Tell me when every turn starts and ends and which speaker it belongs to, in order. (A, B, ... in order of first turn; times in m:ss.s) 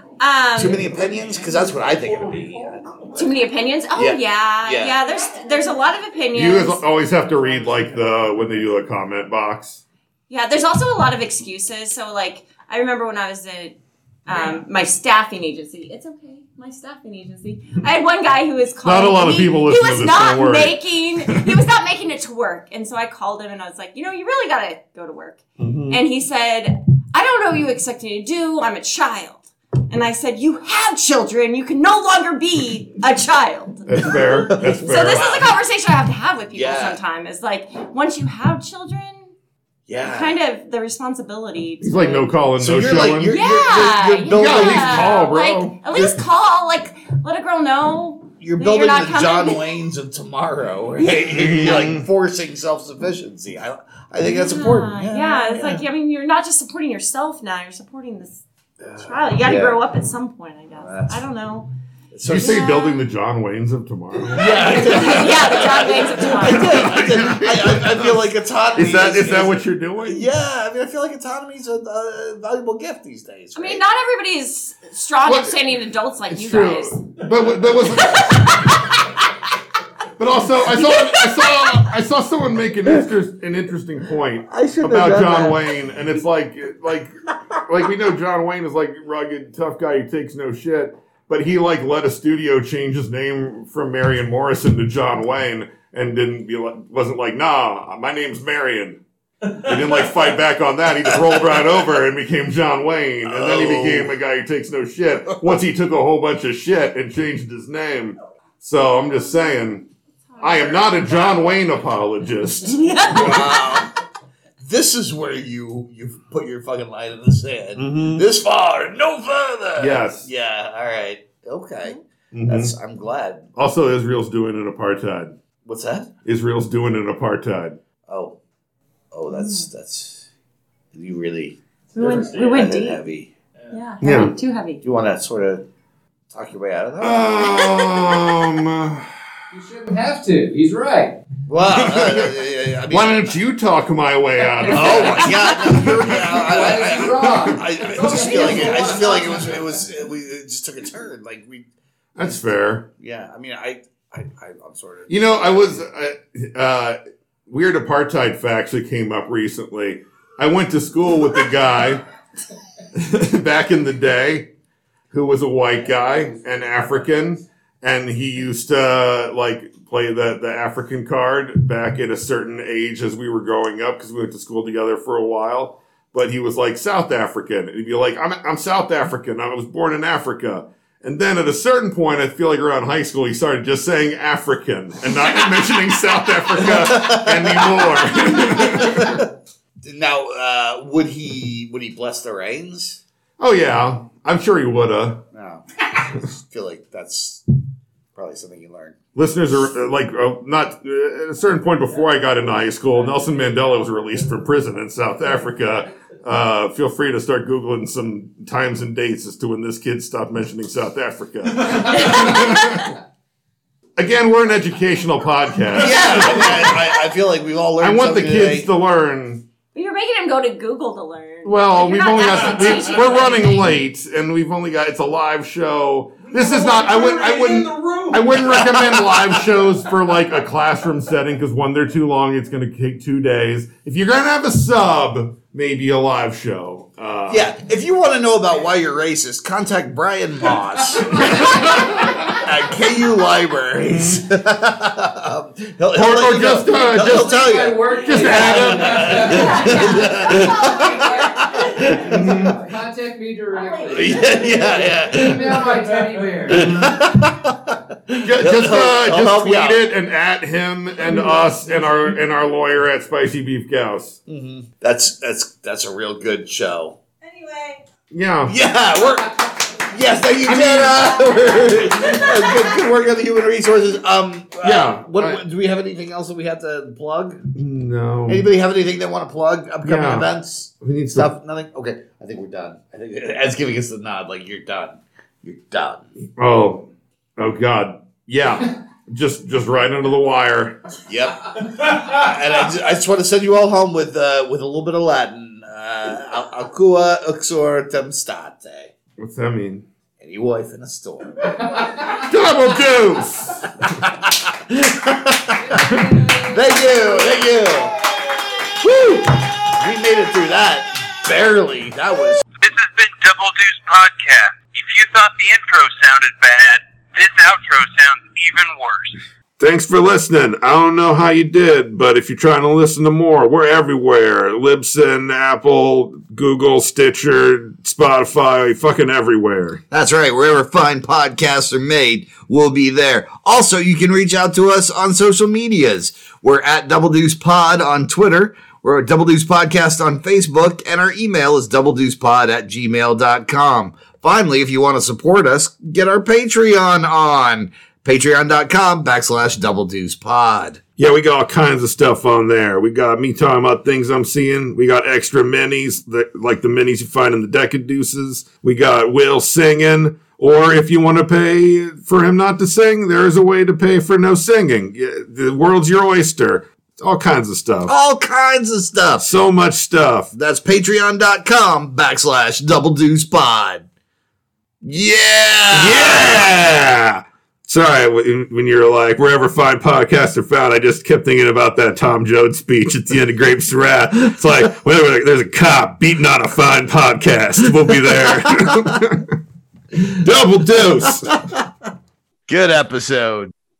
0:00.2-0:00.9 A
0:00.5-0:03.2 B
0:03.1-0:06.8 A
0:03.9-0:05.0 B
0:06.3-0:09.8 C
0:10.3-0:39.3 A
0:18.8-0:21.6 C
0:25.6-0:26.0 C
0:33.9-0:35.5 C
0:34.1-0:35.5 B
0:36.5-0:37.0 B
0:39.9-0:40.4 B
0:40.0-0:42.3 A
0:41.8-0:43.4 C
0:42.6-0:45.2 B
0:43.2-0:49.8 A
0:44.3-0:46.0 C
0:45.9-0:46.2 B
0:48.4-0:55.8 B
0:51.0-0:51.8 A
0:51.3-0:52.0 C
0:54.2-0:58.4 A
0:58.8-0:59.8 B
0:59.0-1:01.7 A
1:00.8-1:01.2 B
1:02.1-1:02.6 B
1:02.3-1:10.3 C
1:02.3-1:03.0 A
1:04.3-1:13.8 B
1:04.4-1:07.0 A
1:13.6-1:17.2 A
1:15.2-1:18.7 C
1:17.8-1:19.2 A
1:20.2-1:27.1 C
1:20.7-1:21.8 A
1:24.5-1:25.6 B
1:27.7-1:39.0 C
1:39.5-1:49.9 C
1:41.2-1:41.5 B
1:43.2-1:44.1 B
1:50.4-1:50.8 A
1:50.4-1:53.4 C
1:52.7-1:53.8 A
1:53.1-1:53.9 B
1:54.6-2:03.5 B
1:57.8-1:58.2 C
1:59.8-2:00.3 C
2:02.3-2:02.7 C
2:03.6-2:05.4 C
2:05.6-2:06.1 B
2:06.2-2:07.8 C
2:08.1-2:08.4 B
2:09.1-2:10.2 B
2:09.3-2:09.7 A
2:10.9-2:13.3 B
2:11.9-2:13.0 A
2:13.7-2:14.8 A
2:14.0-2:14.4 C
2:14.8-2:15.6 B
2:16.3-2:17.7 B
2:17.0-2:19.1 C
2:17.4-2:18.1 A
2:19.5-2:21.2 D
2:21.5-2:23.3 B
2:21.7-2:22.4 C
2:22.9-2:27.6 C
2:24.6-2:31.7 B
2:24.7-2:25.8 A
2:26.3-2:29.8 D
2:32.2-2:32.8 C
2:33.0-2:35.8 B
2:35.1-2:42.0 C
2:42.9-2:44.5 C
2:45.1-3:09.2 C
3:06.5-3:09.3 B
3:09.8-3:13.0 B
3:13.4-3:15.2 C
3:15.3-3:17.4 B
3:18.1-3:19.0 B
3:19.1-3:32.9 C
3:31.8-3:32.9 A
3:34.0-3:36.8 C
3:35.7-3:38.7 B
3:37.8-3:39.4 C
3:39.7-3:43.7 A
3:41.4-3:57.5 C
3:47.1-3:48.0 D
3:57.3-4:12.4 B
4:01.1-4:01.9 C
4:03.8-4:04.2 C
4:05.9-4:07.4 C
4:06.7-4:17.0 D
4:08.0-4:09.4 C
4:09.3-4:11.9 A
4:12.1-4:12.6 C
4:13.5-4:14.8 A
4:13.9-4:15.9 B
4:16.4-4:19.8 B
4:16.6-4:16.9 C
4:18.2-4:24.2 C
4:21.0-4:21.4 B
4:21.6-4:22.0 D
4:24.3-4:27.0 B
4:27.2-4:27.8 A
4:28.1-4:28.5 C
4:28.4-4:37.5 B
4:30.4-4:31.2 C
4:34.6-4:35.4 C
4:37.5-4:38.5 C
4:38.3-4:46.1 B
4:39.8-4:40.3 C
4:40.8-4:41.3 C
4:46.4-4:50.8 C
4:51.1-4:58.9 B
4:59.2-4:59.8 C
5:00.2-5:01.5 B
5:02.0-5:03.6 C
5:03.9-5:08.0 B
5:05.7-5:06.6 D
5:08.8-5:12.4 B
5:12.6-5:19.2 E
5:19.6-5:29.8 C
5:29.9-5:50.8 B
5:51.0-6:07.9 C
6:07.8-6:09.3 B
6:09.2-6:10.3 C
6:10.3-6:13.8 B
6:14.8-6:16.5 B
6:15.7-6:29.3 C
6:29.9-6:31.3 C
6:30.2-6:31.6 B
6:32.5-6:33.5 B